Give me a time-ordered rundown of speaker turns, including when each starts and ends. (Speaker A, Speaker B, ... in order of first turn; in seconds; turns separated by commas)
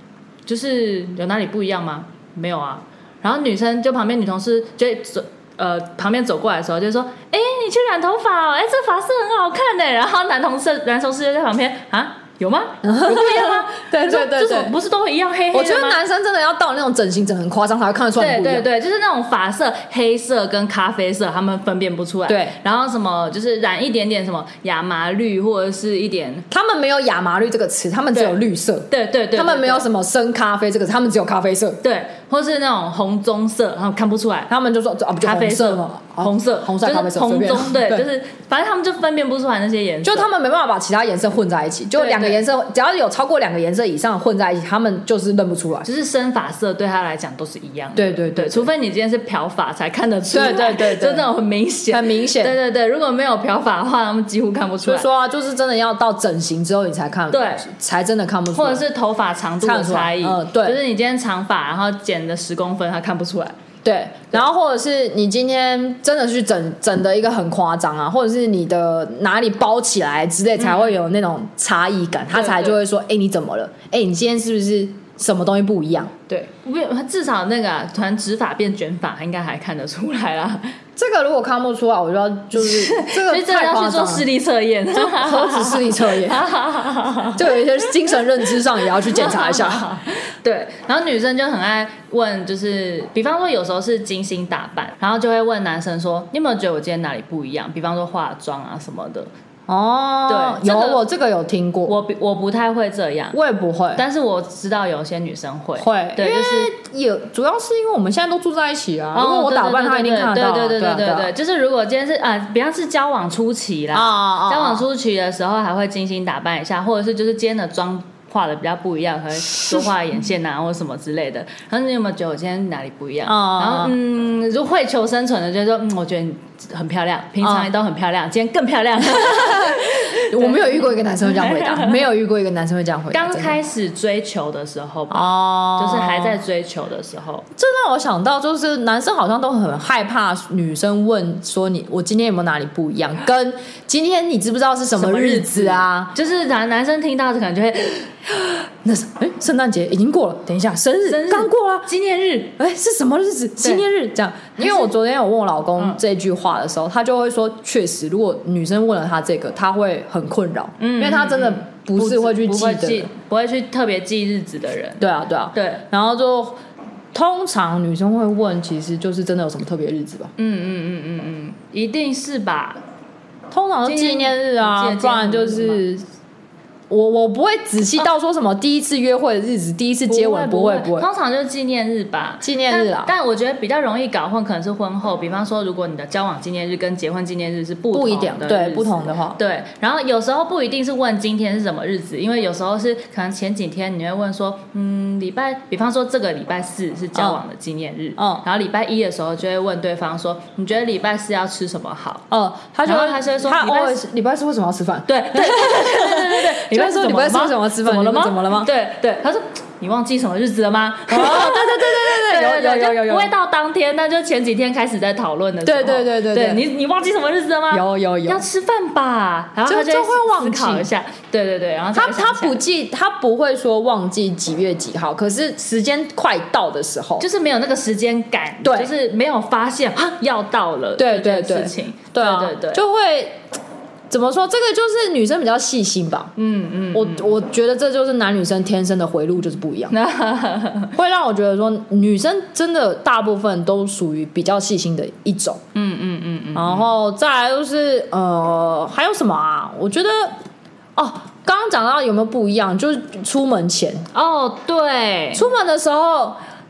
Speaker A: 0.5-16.0, Speaker B: 12.8-14.7, Speaker B: 15.5-18.7, Speaker A: 18.2-26.5, Speaker B: 22.3-22.6, Speaker B: 26.5-31.8, Speaker A: 28.1-29.9, Speaker A: 31.8-34.5, Speaker B: 34.5-38.0, Speaker A: 35.2-40.3, Speaker B: 40.0-45.9, Speaker A: 41.9-42.4, Speaker A: 45.8-55.1, Speaker B: 48.0-48.7, Speaker B: 50.3-51.3, Speaker B: 51.9-52.5, Speaker B: 54.8-58.9, Speaker A: 57.3-57.7, Speaker A: 58.5-63.6, Speaker B: 59.6-60.8, Speaker B: 63.8-76.1, Speaker A: 70.6-71.0, Speaker A: 72.3-72.8, Speaker A: 76.3-80.7, Speaker B: 81.0-84.3, Speaker A: 82.5-99.3, Speaker B: 84.9-86.5, Speaker B: 87.3-89.9, Speaker B: 99.7-102.0, Speaker A: 100.3-101.0, Speaker A: 101.9-103.4, Speaker B: 103.3-104.0, Speaker A: 104.0-106.7, Speaker B: 105.8-111.3, Speaker A: 109.1-132.0, Speaker B: 113.9-114.8, Speaker B: 119.5-119.9, Speaker B: 123.3-124.0, Speaker B: 127.4-127.7, Speaker B: 129.2-133.6, Speaker A: 133.1-137.4, Speaker B: 135.1-136.4, Speaker B: 137.6-146.1, Speaker A: 144.9-148.2, Speaker B: 148.8-151.9, Speaker A: 151.1-152.5, Speaker B: 152.6-163.1, Speaker A: 154.6-154.9, Speaker A: 160.8-165.8, Speaker B: 165.0-166.6, Speaker B: 167.1-170.3, Speaker A: 170.4-172.8, Speaker B: 173.5-176.0, Speaker A: 173.8-175.8, Speaker B: 176.9-181.1, Speaker A: 180.1-202.3, Speaker B: 182.4-183.1, Speaker B: 187.9-189.4, Speaker B: 197.1-197.4, Speaker B: 198.2-198.4, Speaker B: 202.3-208.7, Speaker A: 202.8-204.0, Speaker A: 205.1-222.6, Speaker B: 211.1-213.3, Speaker B: 215.7-216.6, Speaker B: 217.7-218.4, Speaker B: 219.7-220.9, Speaker B: 221.9-227.3, Speaker A: 227.2-232.8, Speaker B: 228.6-228.9, Speaker B: 231.0-233.4, Speaker B: 234.1-236.3, Speaker A: 236.4-237.3, Speaker B: 236.9-239.9, Speaker A: 239.9-240.9, Speaker B: 240.9-245.6, Speaker A: 245.8-246.9, Speaker B: 246.5-250.3, Speaker B: 251.0-254.1, Speaker A: 254.1-255.5, Speaker B: 255.3-256.4